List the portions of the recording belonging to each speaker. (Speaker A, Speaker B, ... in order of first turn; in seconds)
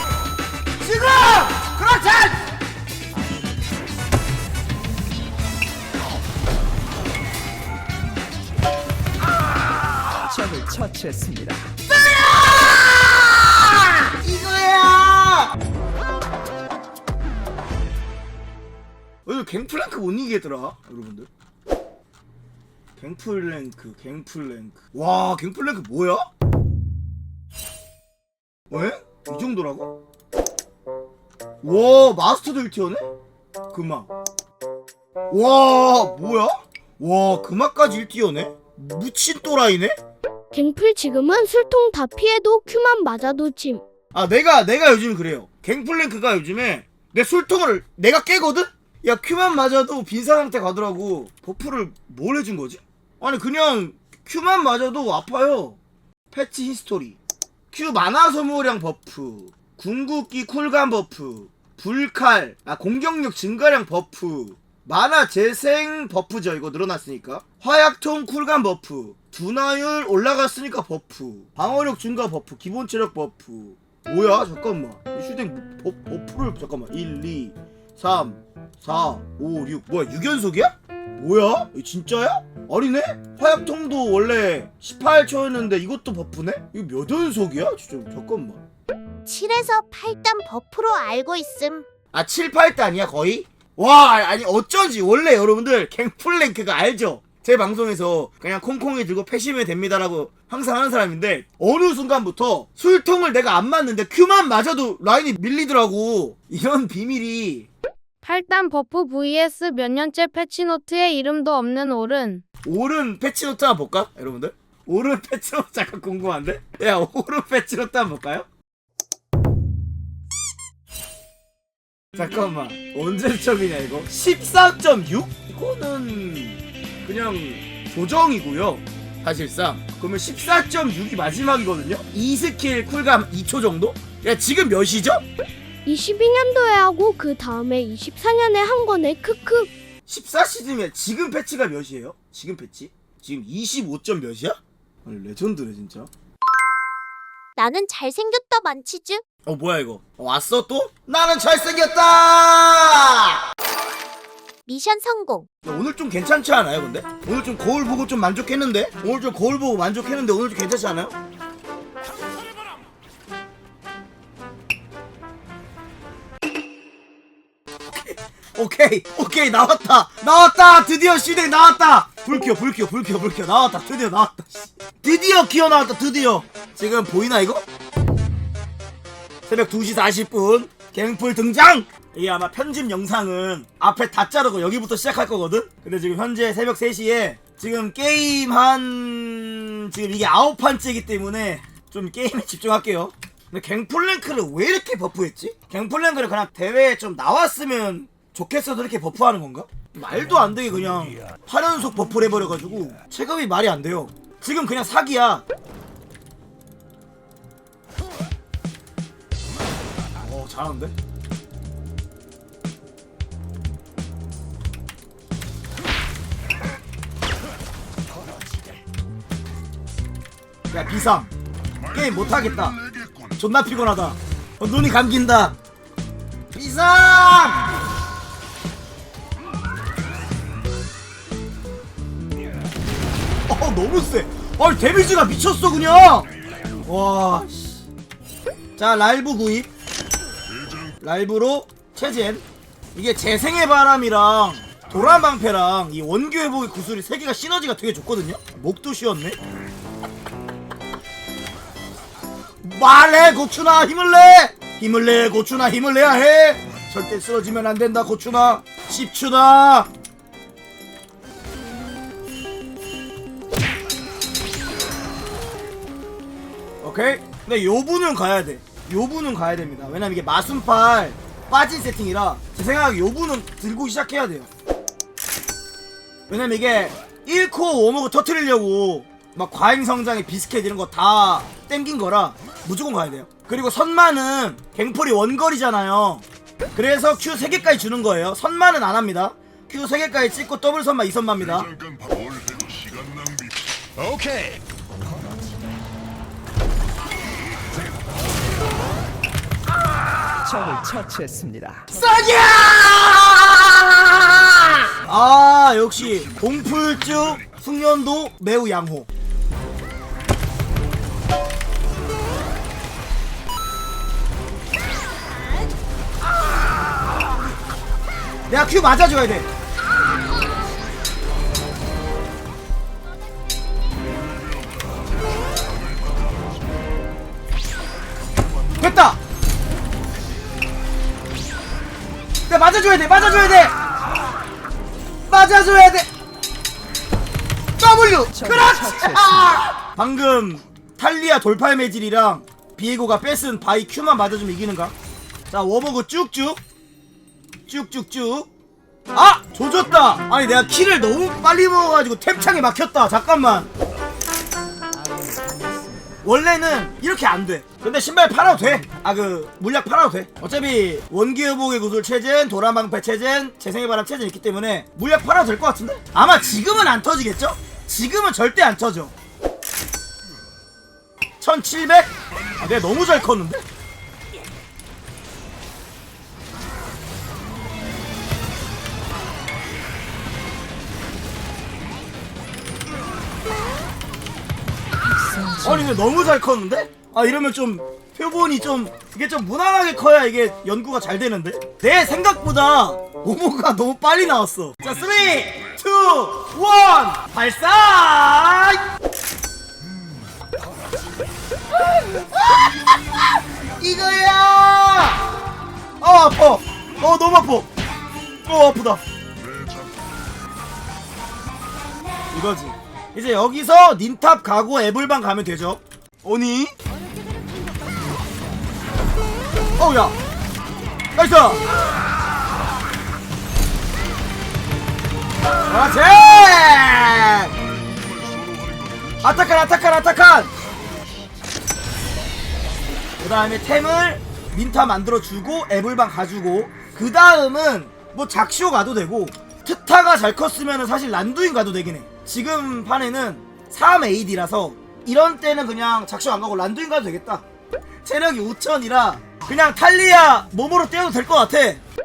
Speaker A: 0.8-2.4, 12.1-13.0, 14.1-15.5, 19.3-21.3, 23.0-26.2, 28.7-30.0, 31.6-33.0, 33.7-34.1, 35.3-39.9, 44.1-55.8, 56.3-57.2, 57.7-88.6, 92.1-107.7, 112.7-118.5, 122.2-135.2, 140.1-146.1, 149.5-153.4, 155.7-161.1, 167.9-177.6, 179.5-205.4, 210.2-210.9, 220.7-221.3, 221.9-222.8, 223.4-225.6, 226.5-227.7, 233.5-236.3, 236.9-237.5, 238.8-239.7, 241.0-242.4, 242.9-249.4, 252.6-259.9, 266.8-274.5, 276.3-286.2, 286.8-291.7, 301.9-309.1, 318.5-319.5, 328.8-329.2, 332.5-333.7, 335.3-336.1, 337.8-344.9, 345.5-346.6, 347.7-348.5, 349.1-353.7, 356.2-369.1, 371.4-373.6, 385.6-398.8, 401.8-405.3, 406.0-407.7, 408.5-409.0, 412.3-416.8, 419.8-420.2, 421.2-421.6, 425.7-427.5, 429.2-430.5, 433.2-447.4, 448.1-451.8
Speaker B: 3.1-3.8, 10.2-11.7, 300.4-302.2, 338.3-339.6, 354.9-356.2, 358.4-359.1, 385.0-386.1
Speaker C: 40.5-43.8, 135.9-139.7
Speaker D: 89.2-91.9, 147.6-149.2, 154.7-155.5
Speaker E: 108.2-112.4
Speaker F: 221.8-223.4, 240.5-241.0, 291.4-294.6, 305.9-307.6, 324.0-326.9, 372.3-373.2, 394.8-395.8, 409.4-410.3, 427.5-431.4